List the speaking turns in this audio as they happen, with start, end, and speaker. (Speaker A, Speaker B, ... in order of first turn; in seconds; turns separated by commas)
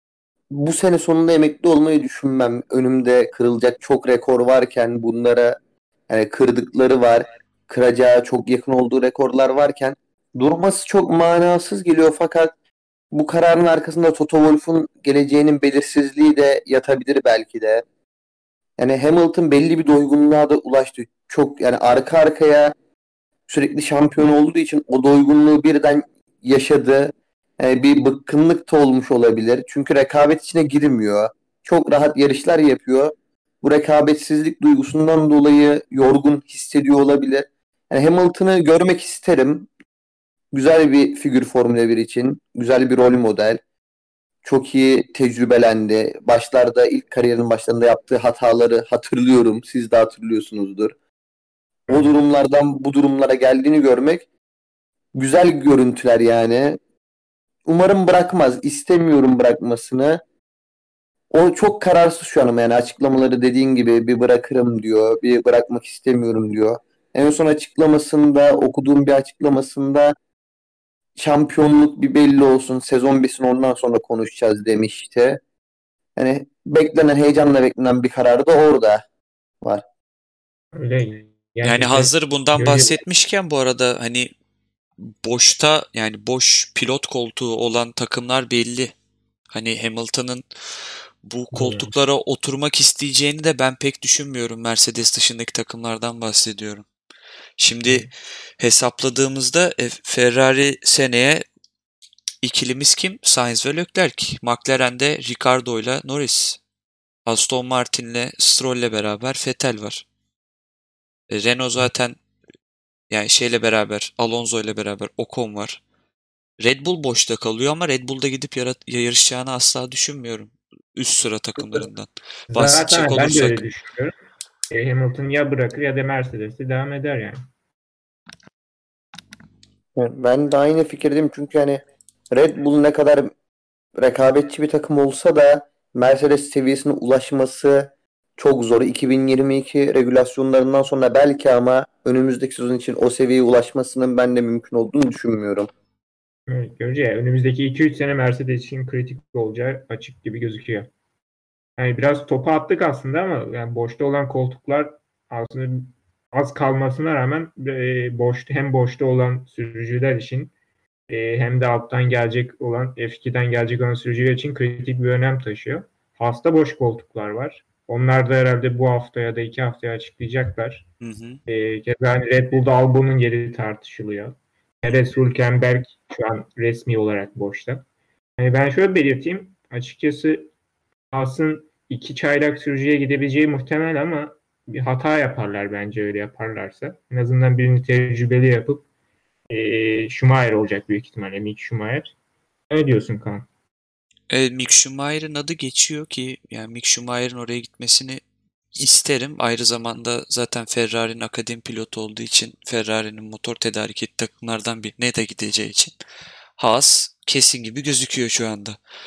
Speaker A: 0.5-5.6, Speaker A: 6.1-12.5, Speaker A: 13.1-17.8, Speaker A: 18.8-22.8, Speaker A: 23.5-39.7, Speaker A: 40.5-43.6, Speaker A: 44.4-51.0, Speaker A: 51.9-54.2, Speaker A: 55.1-56.8, Speaker A: 57.7-60.2, Speaker A: 61.3-70.2, Speaker A: 71.2-75.4, Speaker A: 76.2-79.0, Speaker B: 80.7-83.0, Speaker C: 81.6-84.3, Speaker C: 85.0-88.9, Speaker C: 89.5-90.5, Speaker C: 91.2-96.9, Speaker B: 91.5-91.9, Speaker C: 97.6-98.1, Speaker C: 98.6-101.4, Speaker C: 102.4-106.6, Speaker C: 107.2-110.0, Speaker C: 111.3-112.2, Speaker C: 113.1-115.8, Speaker C: 116.6-123.6, Speaker B: 122.5-124.1, Speaker B: 124.7-127.5, Speaker A: 130.0-133.3, Speaker A: 134.0-145.7, Speaker B: 146.5-150.9, Speaker B: 151.8-160.5, Speaker B: 161.1-170.9, Speaker C: 171.0-171.4, Speaker B: 171.5-177.8, Speaker B: 178.4-180.5, Speaker B: 181.1-188.9, Speaker B: 189.5-192.1, Speaker B: 192.7-193.5, Speaker C: 194.3-198.2, Speaker C: 198.7-205.9, Speaker C: 206.6-208.8